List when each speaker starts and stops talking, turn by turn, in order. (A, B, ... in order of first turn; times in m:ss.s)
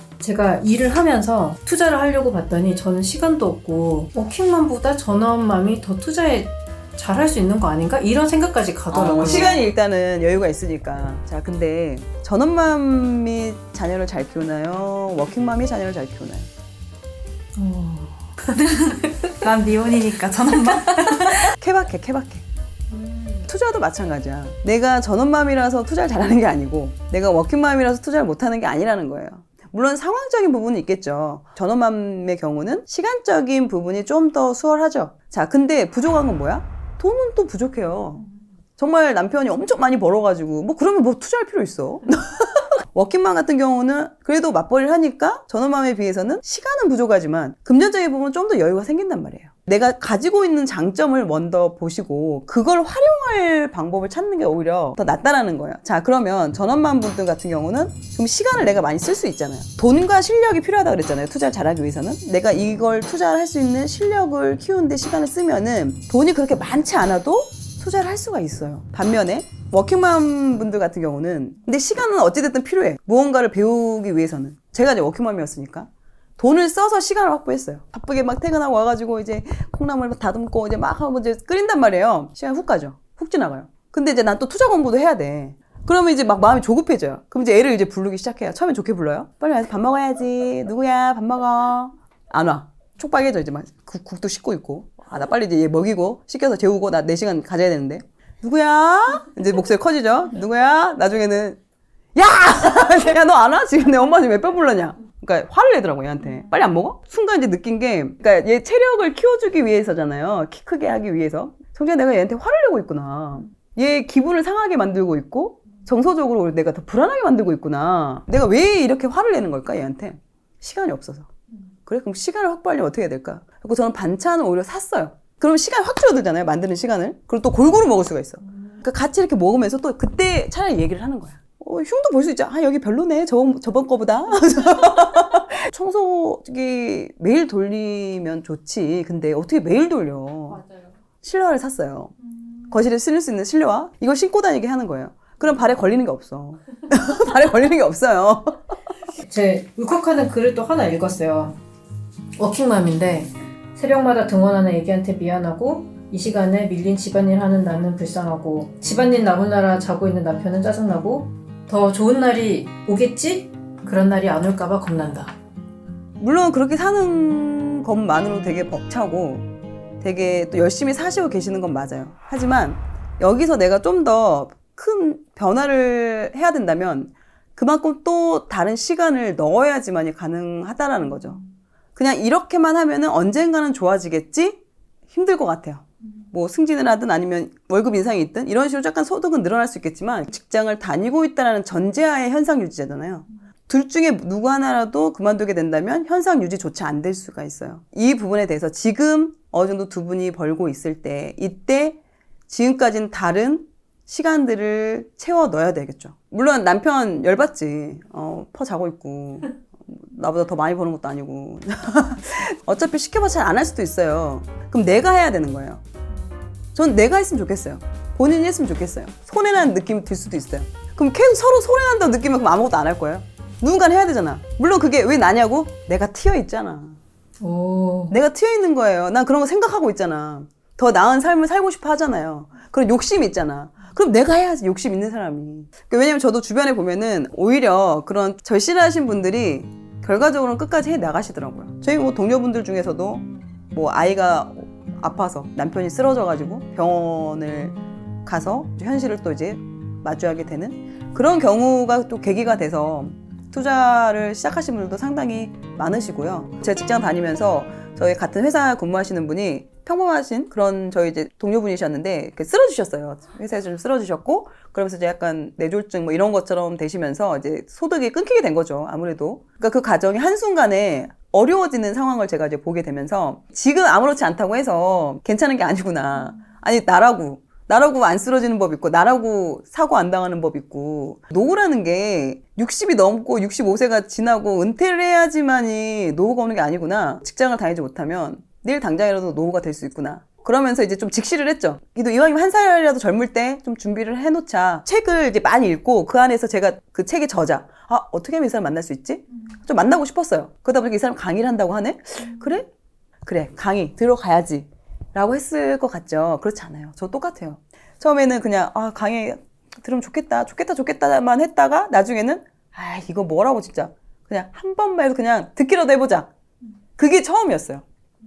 0:00.2-0:09.6 A
0:08.9-0:16.5 B
0:17.6-0:19.3 A
0:19.3-0:21.5 C
0:21.4-0:22.4 B
0:22.9-0:23.4 A
0:23.4-0:38.2 B
0:38.8-1:41.6 B
1:42.2-2:01.3 B
2:01.9-2:20.6 B
2:20.6-2:20.9 A
2:21.2-2:22.1 B
2:22.7-2:28.6 B
2:29.2-2:31.6 A
2:32.4-2:45.4 A
2:46.2-2:49.5 B
2:50.0-3:01.4 B
3:02.0-3:04.6 B
3:05.1-3:35.8 B
3:36.8-3:47.0 B
3:47.4-3:48.2 A
3:48.1-5:02.7 B
5:03.2-5:16.3 B
5:17.0-5:17.8 B